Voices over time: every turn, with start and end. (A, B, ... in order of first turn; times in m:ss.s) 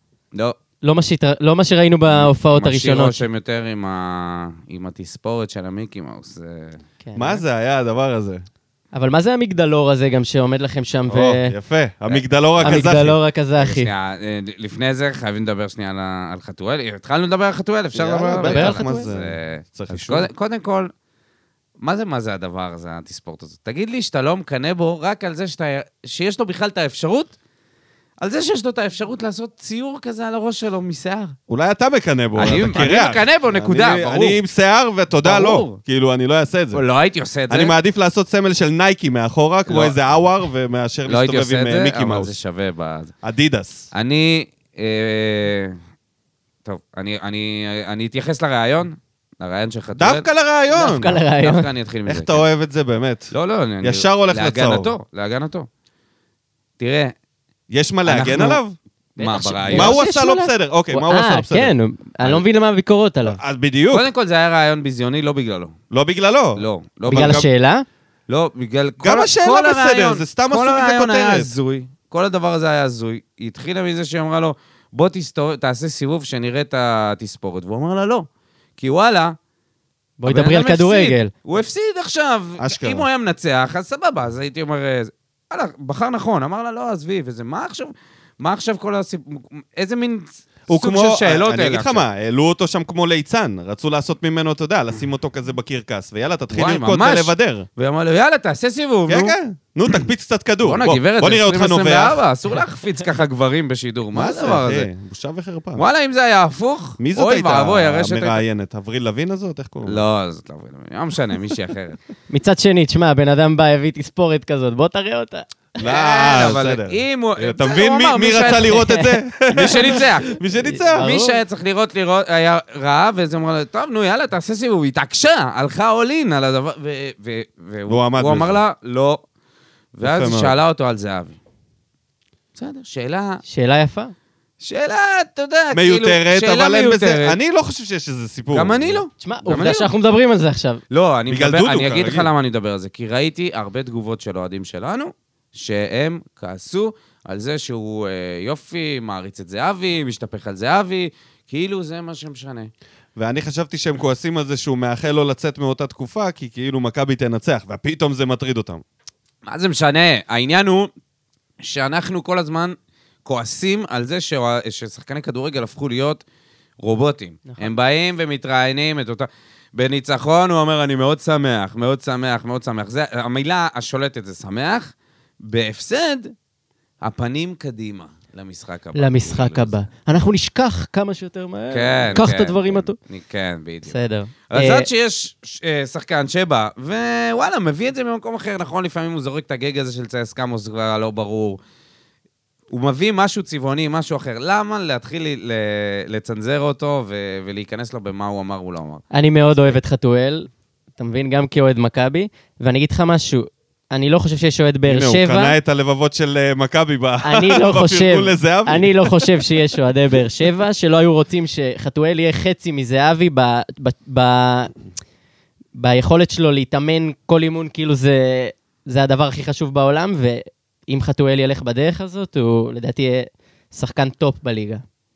0:00.3-0:00.6 A
0:00.8-0:03.2 B
0:02.1-0:06.8 A
0:07.0-0:07.4 B
0:07.1-0:08.4 C
0:08.9-0:11.5 B
0:11.1-0:13.2 C
0:12.1-0:12.9 A
0:12.6-0:13.9 B
0:13.6-0:20.9 A
0:17.9-0:20.3 C
0:18.4-0:19.1 B
0:21.8-0:27.3 A
0:28.2-0:31.4 A
0:31.5-0:36.8 C
0:32.4-0:34.4 A
0:35.2-0:35.8 A
0:36.7-0:37.7 A
0:37.5-0:42.3 C
0:39.7-0:40.0 A
0:41.1-0:43.1 A
0:43.2-0:43.9 C
0:43.9-0:45.8 A
0:46.6-0:50.2 A
0:49.9-0:51.2 C
0:50.7-0:51.7 B
0:51.4-0:52.4 A
0:52.0-0:54.9 C
0:53.3-0:55.7 A
0:56.8-0:57.1 A
0:57.7-0:58.8 C
0:58.0-0:58.6 A
0:59.2-1:00.0 A
0:59.2-1:03.4 B
0:59.7-1:01.7 C
1:03.2-1:04.0 C
1:03.9-1:05.7 A
1:05.9-1:07.5 C
1:06.6-1:07.5 A
1:07.1-1:07.8 B
1:08.3-1:19.4 A
1:09.0-1:11.5 C
1:20.2-1:21.3 B
1:20.2-1:32.0 A
1:22.6-1:23.0 C
1:30.7-1:37.7 C
1:36.5-1:39.4 A
1:39.1-1:42.2 C
1:40.6-1:44.9 A
1:44.1-1:45.8 C
1:45.8-1:48.4 A
1:47.0-1:50.0 C
1:49.8-1:52.0 A
1:52.3-1:55.5 B
1:55.8-2:01.1 C
1:55.8-1:59.0 A
1:58.6-1:59.1 B
1:59.5-2:00.4 A
1:59.7-2:00.0 B
2:00.6-2:01.4 B
2:00.9-2:09.2 A
2:07.9-2:08.6 C
2:09.9-2:11.4 A
2:10.0-2:10.5 C
2:12.5-2:13.4 A
2:13.5-2:14.1 B
2:14.6-2:17.4 A
2:15.7-2:19.0 C
2:18.5-2:19.9 A
2:19.2-2:20.8 B
2:20.9-2:32.7 A
2:21.3-2:22.3 C
2:33.2-2:38.8 C
2:39.4-2:40.9 A
2:41.6-2:46.2 A
2:46.8-2:56.3 A
2:47.4-2:47.7 B
2:57.0-2:59.7 A
2:58.9-3:03.0 B
3:01.7-3:04.0 A
3:03.8-3:04.9 B
3:04.5-3:11.6 A
3:12.7-3:19.8 A
3:19.1-3:25.6 B
3:24.9-3:29.4 C
3:27.2-3:34.7 B
3:35.8-3:44.8 B